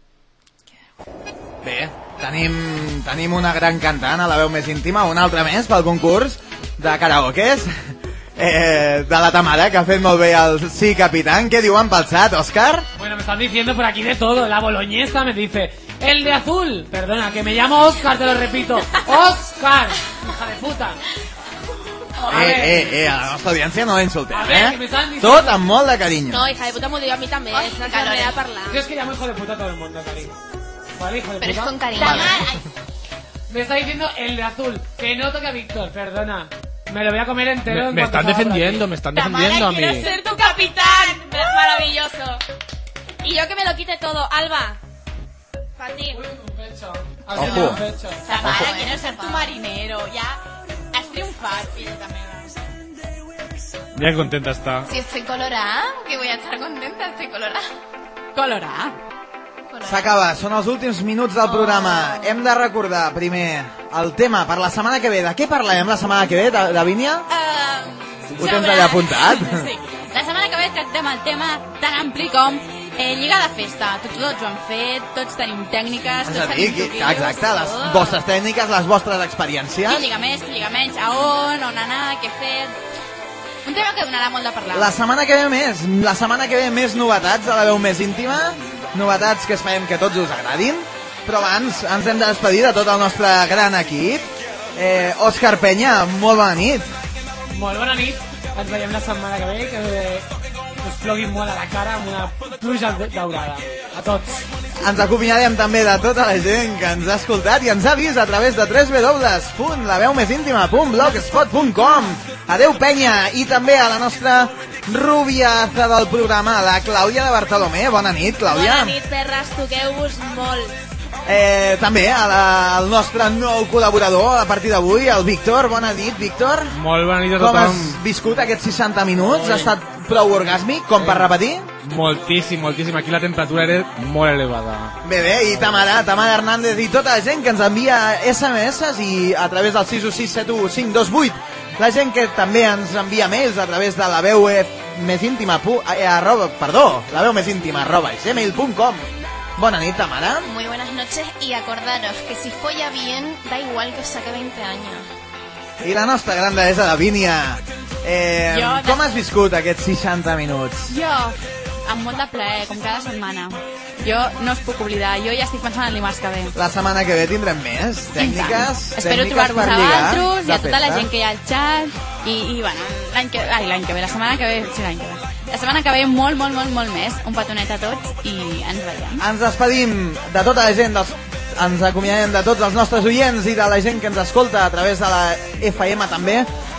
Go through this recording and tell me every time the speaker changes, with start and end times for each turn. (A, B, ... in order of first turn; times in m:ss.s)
0:01.6-0:12.9 A
0:13.0-0:21.0 B
0:22.2-0:23.0 B
0:22.3-0:26.4 A
0:24.3-0:25.6 B
0:26.3-0:28.8 C
0:27.5-0:28.4 D
0:28.7-0:30.4 B
0:31.0-0:32.2 B
0:31.4-0:32.4 D
0:32.0-0:32.4 A
0:32.1-0:32.5 E
0:33.5-0:38.9 B
0:37.7-0:40.1 F
0:39.1-0:41.6 E
0:40.0-0:42.4 C
0:43.2-0:44.8 C
0:45.8-0:46.2 C
0:46.1-0:48.3 B
0:47.4-0:47.8 A
0:47.4-0:50.4 E
0:48.2-0:49.5 D
0:50.9-0:52.6 E
0:54.0-0:54.9 F
0:54.9-0:57.6 D
0:58.4-0:59.0 E
0:59.7-1:00.1 D
0:59.8-1:07.3 A
1:01.4-1:02.3 D
1:07.3-1:18.2 E
1:08.4-1:09.7 A
1:16.2-1:20.1 A
1:19.8-1:22.8 E
1:23.6-1:25.0 E
1:24.7-1:36.9 A
1:37.5-1:40.3 B
1:40.8-1:44.4 B
1:44.8-1:59.0 A
1:58.5-2:00.7 C
2:01.3-2:06.8 A
2:06.7-2:08.0 F
2:07.3-2:11.7 A
2:09.3-2:09.7 F
2:11.0-2:11.3 F
2:11.8-2:15.0 F
2:15.0-2:30.5 A
2:30.4-2:35.1 D
2:35.8-2:40.9 A
2:38.5-2:39.1 E
2:40.9-2:46.6 E
2:46.6-2:51.1 A
2:48.2-2:59.2 E
2:59.2-3:06.5 A